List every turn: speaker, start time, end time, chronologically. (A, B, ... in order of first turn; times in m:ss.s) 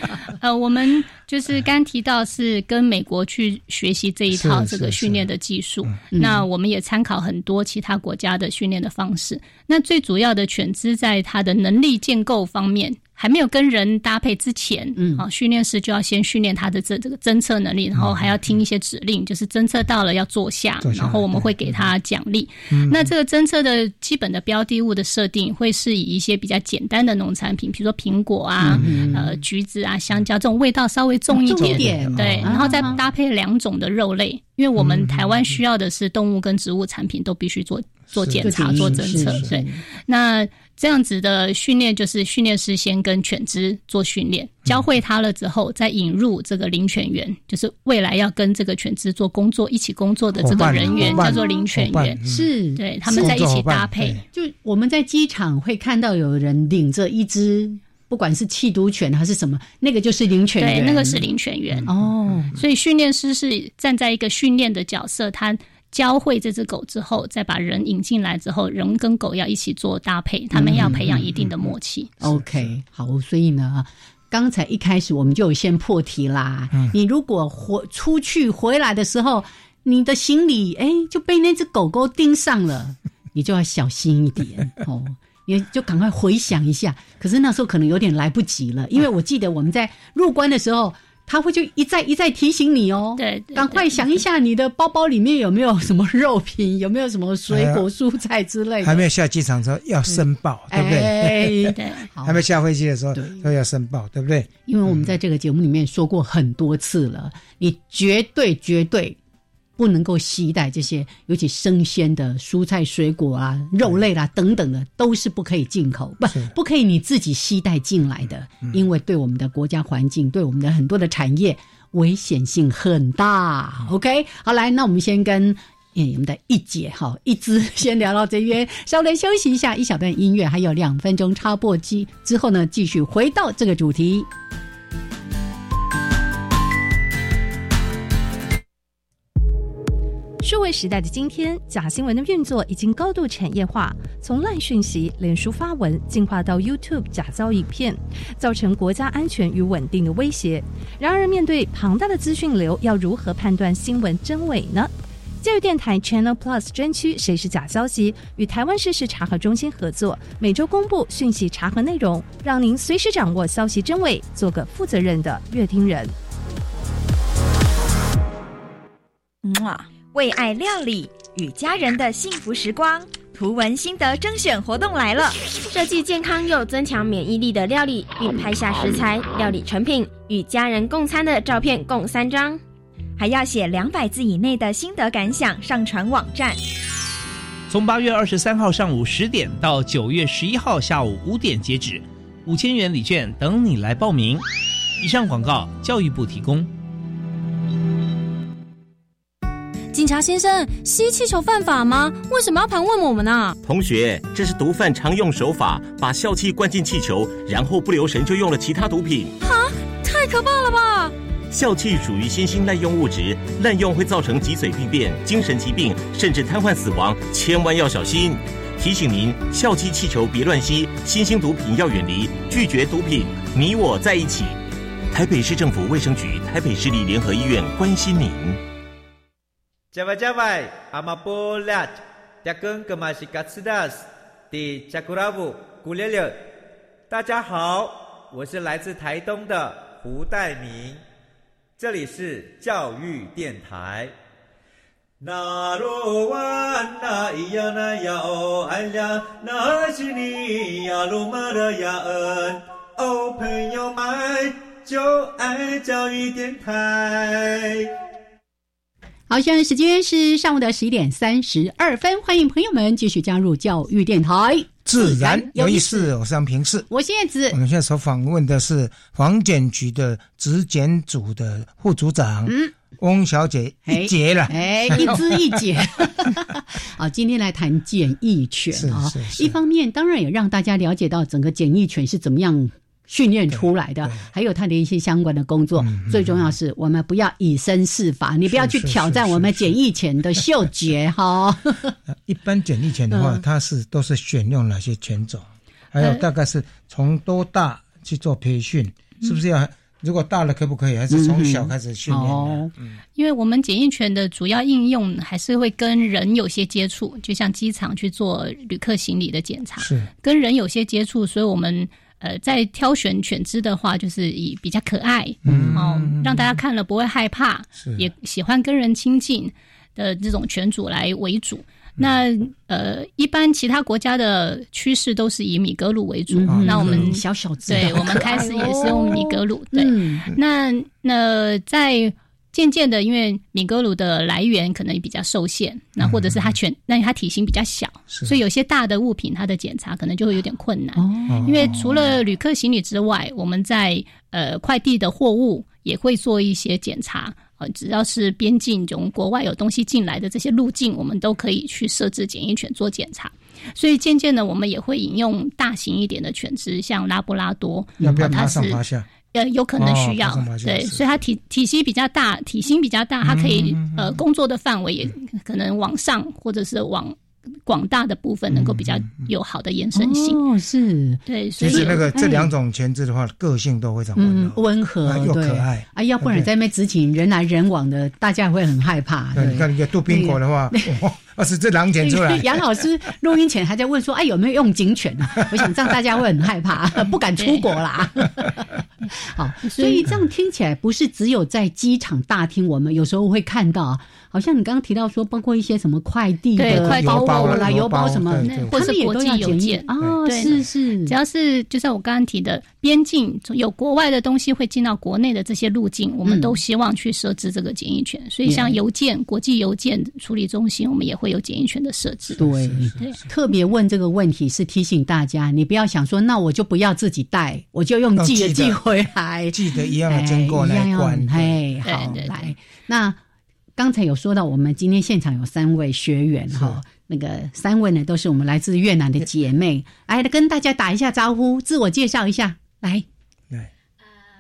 0:00.3-0:52.2 A
0:04.3-0:05.3 B
0:06.1-0:06.4 C
0:15.0-0:15.2 C
0:18.0-0:18.3 B
0:20.8-0:21.7 B
0:22.7-0:23.1 B
0:28.6-0:29.3 C
0:28.7-0:29.2 B
0:31.3-0:32.9 C
0:31.5-0:33.0 B
0:34.8-0:35.2 B
0:38.1-0:39.5 B
0:38.4-0:39.8 C
0:50.4-0:52.5 B
0:50.5-0:51.4 C
0:52.3-0:53.4 C
0:52.8-0:54.2 A
0:53.1-0:54.2 B
0:54.3-1:01.2 C
1:00.6-1:01.9 A
1:01.9-1:02.6 C
1:02.6-1:12.1 A
1:10.5-1:11.2 C
1:10.7-1:12.7 B
1:12.2-1:39.0 C
1:33.2-1:34.0 A
1:37.5-1:37.9 B
1:38.8-1:45.1 B
1:40.1-1:42.4 C
1:41.8-1:42.0 A
1:43.2-1:43.4 C
1:44.7-1:49.2 C
1:49.8-2:14.3 C
2:20.4-2:34.9 D
2:35.4-2:46.2 D
2:49.4-2:55.4 E
2:55.7-3:02.6 F
2:57.8-3:01.8 E
3:03.2-3:06.6 E
3:07.7-3:14.4 G
3:15.0-3:16.7 G
3:19.9-3:23.6 H
3:23.6-3:29.4 I
3:29.4-3:31.1 H
3:31.5-3:44.6 I
3:45.1-3:48.6 I
3:49.9-3:56.4 J
3:57.1-4:01.0 J
4:01.8-4:04.1 J
4:05.2-4:17.9 J
4:19.3-4:26.1 C
4:24.8-4:26.9 B
4:26.9-4:27.6 C
4:27.5-4:35.6 B
4:32.5-4:32.7 C
4:33.9-4:51.9 C
4:38.7-4:39.6 B
4:43.5-4:44.3 B
4:45.8-4:46.5 B
4:48.5-4:49.8 B
4:52.1-5:03.0 B
4:53.1-4:53.4 C
5:01.1-5:02.7 C
5:03.2-5:58.8 A
5:09.8-5:10.1 B
5:15.4-5:16.5 B
5:26.3-5:30.2 C
5:26.5-5:27.1 B
5:27.8-5:28.2 B
5:36.0-5:36.6 B
5:38.1-5:38.4 B
5:41.0-5:41.5 C
5:41.3-5:42.1 B
5:58.0-5:59.1 B
5:59.3-6:10.4 A
5:59.8-6:01.1 B
6:03.2-6:04.2 B
6:08.5-6:09.2 B
6:09.9-6:12.5 C
6:11.3-6:12.1 A
6:11.6-6:16.5 B
6:14.2-6:21.0 C
6:19.4-6:22.6 B
6:22.0-6:41.2 C
6:27.4-6:27.6 A
6:29.7-6:30.0 A
6:36.6-6:37.8 A
6:36.7-6:38.8 B
6:38.4-6:52.4 A
6:46.2-6:46.6 C
6:48.4-6:48.8 C
6:52.4-6:53.3 B
6:52.4-7:03.2 C
6:58.2-6:58.8 B
6:59.5-7:01.6 B
7:01.9-7:02.5 A
7:03.8-7:13.0 C